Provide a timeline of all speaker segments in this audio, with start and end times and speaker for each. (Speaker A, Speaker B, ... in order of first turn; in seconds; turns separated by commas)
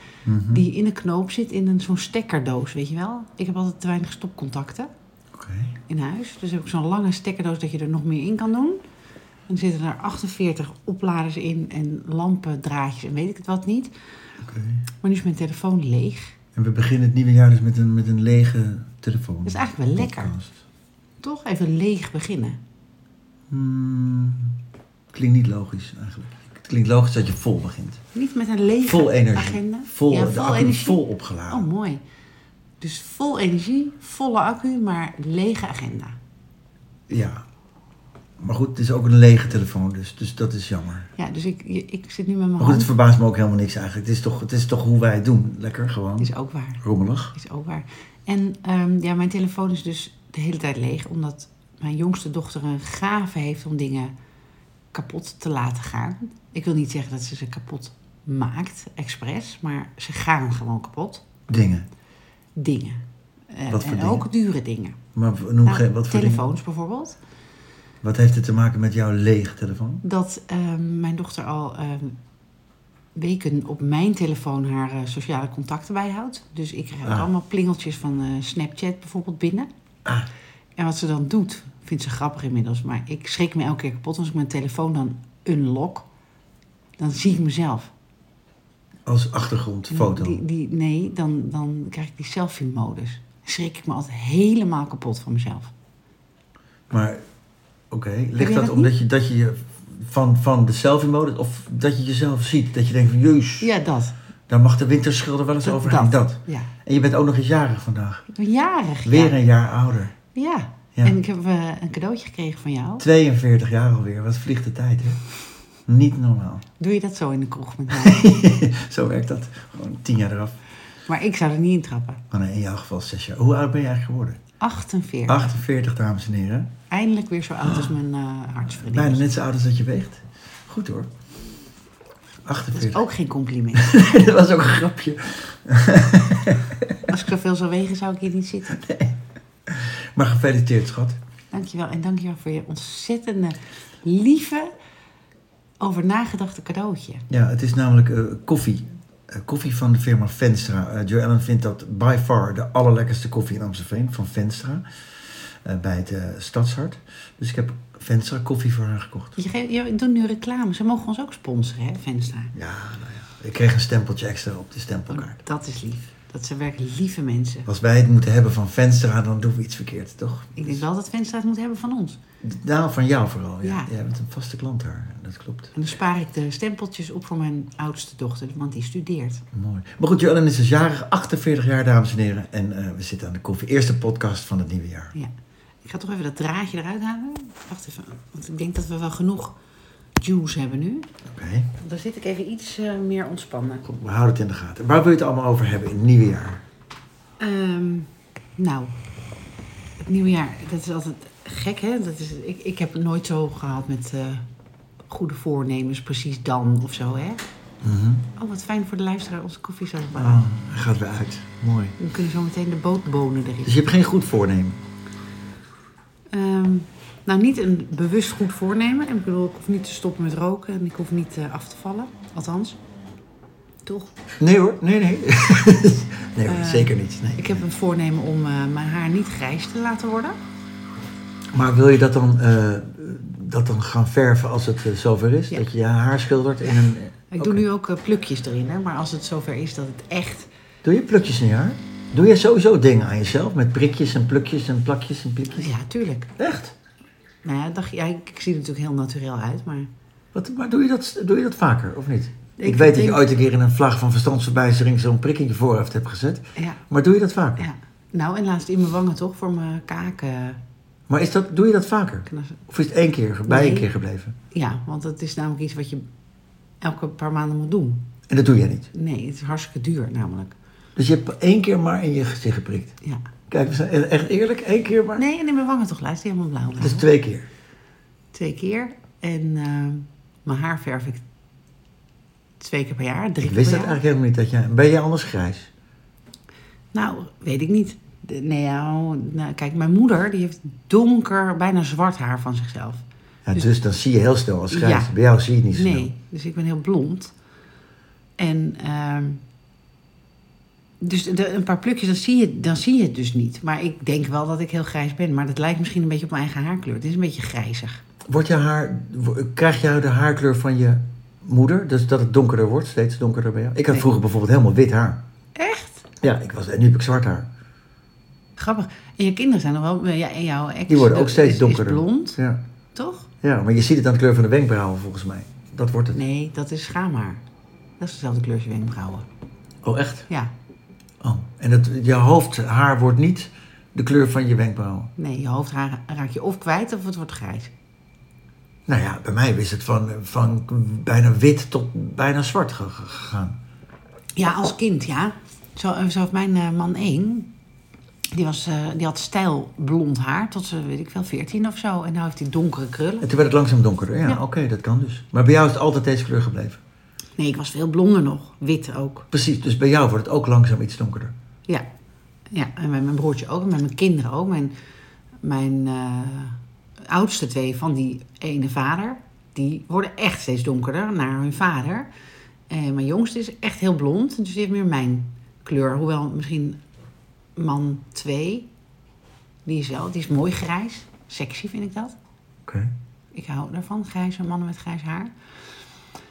Speaker A: 0.2-0.7, Speaker B: 0.5-4.9, Speaker A: 5.3-5.8, Speaker B: 5.9-8.8, Speaker B: 9.5-13.9, Speaker A: 14.4-14.8, Speaker B: 15.0-16.3, Speaker A: 16.6-20.6, Speaker B: 19.4-20.3, Speaker B: 21.2-22.6, Speaker A: 23.5-24.6, Speaker A: 25.1-28.0, Speaker B: 28.1-32.0, Speaker A: 28.8-31.7, Speaker B: 32.8-36.2, Speaker A: 37.1-37.4, Speaker A: 38.4-41.1, Speaker B: 41.2-42.9, Speaker A: 42.6-46.3, Speaker B: 46.2-46.8, Speaker A: 46.8-47.3, Speaker B: 47.3-54.1, Speaker B: 54.9-61.2, Speaker A: 61.5-61.9, Speaker B: 62.6-65.0, Speaker A: 63.7-64.2, Speaker A: 65.1-66.5, Speaker B: 65.6-67.2, Speaker A: 68.0-70.0, Speaker B: 70.0-72.2, Speaker B: 73.1-79.7, Speaker B: 80.8-86.0, Speaker B: 87.0-87.9, Speaker A: 89.0-90.4, Speaker B: 89.9-95.7, Speaker A: 96.9-97.2, Speaker A: 97.9-103.7, Speaker B: 98.4-98.9, Speaker B: 103.6-104.1, Speaker A: 104.5-108.2, Speaker B: 105.6-106.7, Speaker B: 108.3-109.4, Speaker A: 109.0-110.1, Speaker B: 110.3-113.0, Speaker A: 113.0-115.2, Speaker A: 115.9-116.6, Speaker B: 116.8-118.5, Speaker A: 117.9-120.6, Speaker B: 121.1-122.2, Speaker A: 122.3-124.4, Speaker B: 124.6-125.5, Speaker A: 125.3-126.7, Speaker B: 126.9-129.4, Speaker A: 127.6-127.9, Speaker A: 128.7-131.1, Speaker A: 132.4-133.0, Speaker B: 132.8-134.1, Speaker A: 133.7-137.1, Speaker B: 137.1-138.8, Speaker A: 138.7-141.2, Speaker B: 141.5-144.7, Speaker B: 145.8-147.2, Speaker A: 147.3-159.4, Speaker B: 159.4-162.5, Speaker A: 162.5-165.4, Speaker B: 165.1-167.7, Speaker A: 167.7-170.8, Speaker B: 170.6-172.2, Speaker A: 172.4-175.7, Speaker B: 173.6-173.9, Speaker B: 175.7-179.4, Speaker A: 179.5-185.1, Speaker B: 185.8-189.5, Speaker B: 190.2-191.1, Speaker A: 191.3-191.7, Speaker B: 191.8-193.8, Speaker A: 193.8-196.6, Speaker B: 197.4-198.9, Speaker B: 200.0-204.4, Speaker B: 205.1-207.4, Speaker A: 207.8-208.3, Speaker B: 208.3-210.4, Speaker A: 210.2-212.0, Speaker B: 212.0-213.8, Speaker A: 213.7-214.8, Speaker B: 216.3-222.8, Speaker B: 223.8-224.1, Speaker A: 224.3-227.6, Speaker B: 226.5-230.4, Speaker A: 231.5-237.6, Speaker B: 236.6-240.5, Speaker A: 240.8-245.7, Speaker B: 245.5-246.3, Speaker A: 246.4-246.7, Speaker B: 247.4-249.9, Speaker A: 250.3-257.6, Speaker B: 252.6-253.2, Speaker B: 257.6-260.6, Speaker A: 261.1-264.4, Speaker B: 262.3-262.6, Speaker B: 263.5-263.9, Speaker B: 264.5-266.0, Speaker B: 266.8-268.0, Speaker A: 268.3-268.9, Speaker B: 268.9-270.6, Speaker A: 271.0-272.9, Speaker A: 273.5-275.2, Speaker B: 275.2-277.1, Speaker A: 276.8-277.5, Speaker B: 278.3-281.2, Speaker B: 282.6-284.0, Speaker A: 283.4-285.7, Speaker B: 286.9-293.0, Speaker A: 293.5-296.1, Speaker B: 294.7-295.1, Speaker B: 295.7-297.3, Speaker B: 298.4-299.4, Speaker B: 301.0-308.0, Speaker A: 308.2-315.2, Speaker B: 315.6-316.1, Speaker A: 316.2-317.5, Speaker B: 318.6-322.4, Speaker A: 320.9-322.6, Speaker B: 322.9-323.3, Speaker A: 323.4-326.2, Speaker B: 326.1-327.4, Speaker B: 328.0-329.3, Speaker A: 329.8-330.3, Speaker A: 331.2-335.1, Speaker B: 335.2-337.7, Speaker A: 338.9-343.6, Speaker B: 344.4-347.5, Speaker B: 348.3-353.3, Speaker A: 353.2-356.8, Speaker B: 357.4-359.3, Speaker A: 359.3-361.3, Speaker B: 362.5-364.7, Speaker B: 365.4-372.1, Speaker B: 372.7-376.8, Speaker B: 377.6-378.7, Speaker B: 379.7-382.2, Speaker A: 382.7-382.9, Speaker B: 383.3-385.3